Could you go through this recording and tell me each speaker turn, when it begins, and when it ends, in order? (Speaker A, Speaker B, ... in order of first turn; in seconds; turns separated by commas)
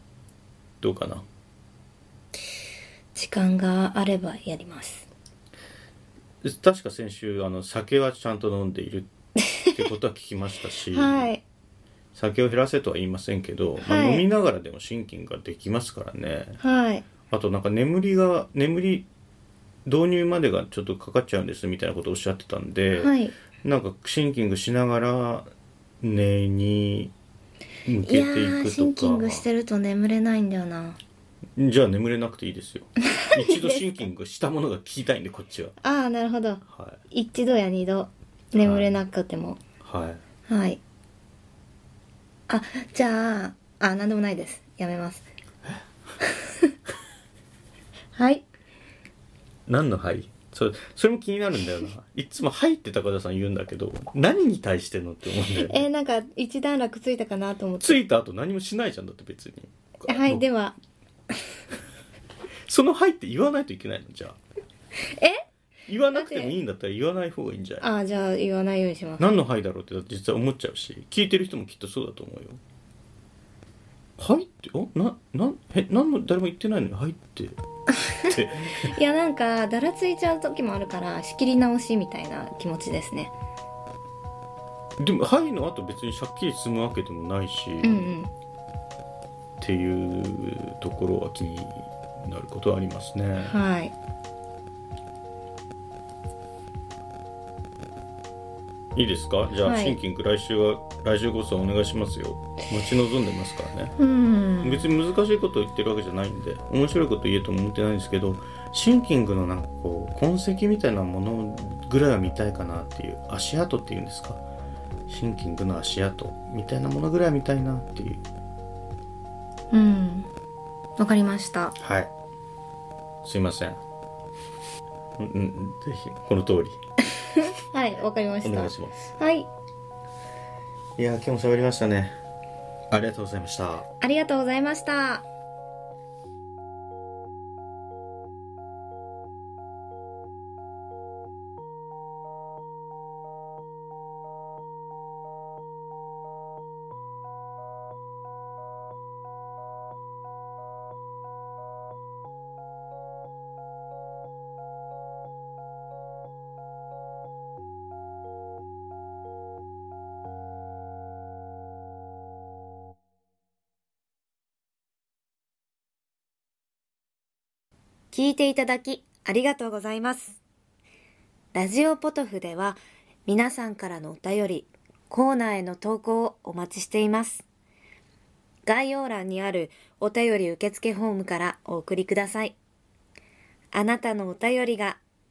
Speaker A: 0.8-1.2, Speaker B: 3.1-5.1, Speaker A: 6.4-9.1, Speaker A: 9.7-11.3, Speaker B: 10.9-11.4, Speaker A: 12.1-16.6, Speaker B: 13.8-14.2, Speaker B: 16.6-17.0, Speaker A: 17.3-19.1, Speaker A: 19.9-25.5, Speaker B: 22.9-23.3, Speaker A: 26.0-27.1, Speaker A: 27.9-29.4, Speaker B: 28.0-31.0, Speaker A: 31.6-35.8, Speaker B: 33.2-33.8, Speaker B: 35.8-39.6, Speaker A: 36.7-37.0, Speaker A: 38.5-39.0, Speaker A: 39.8-40.2, Speaker B: 40.5-40.8, Speaker B: 42.5-45.2, Speaker B: 46.2-46.7, Speaker B: 48.1-48.4, Speaker A: 49.7-55.9, Speaker B: 55.6-58.0, Speaker A: 57.8-60.4, Speaker B: 60.1-60.7, Speaker A: 62.7-64.4, Speaker B: 65.0-65.4, Speaker A: 65.9-67.9, Speaker B: 66.1-66.5, Speaker B: 67.8-69.2, Speaker A: 69.2-72.6, Speaker A: 74.2-77.5, Speaker B: 78.0-83.3, Speaker A: 78.3-78.9, Speaker A: 85.0-88.1, Speaker B: 87.8-88.3, Speaker A: 89.6-93.5, Speaker B: 93.4-93.9, Speaker A: 98.9-103.9, Speaker B: 99.6-100.0, Speaker B: 104.0-104.9, Speaker A: 104.6-114.4, Speaker A: 115.1-118.2, Speaker B: 119.7-120.3, Speaker B: 121.0-121.7, Speaker A: 121.8-122.1, Speaker A: 123.2-123.8, Speaker A: 125.2-126.8, Speaker B: 127.3-129.5, Speaker A: 128.4-129.0, Speaker A: 131.0-132.1, Speaker A: 132.9-133.9, Speaker B: 134.0-135.2, Speaker B: 168.1-170.4, Speaker B: 171.5-177.4, Speaker B: 178.7-182.6, Speaker B: 183.7-185.0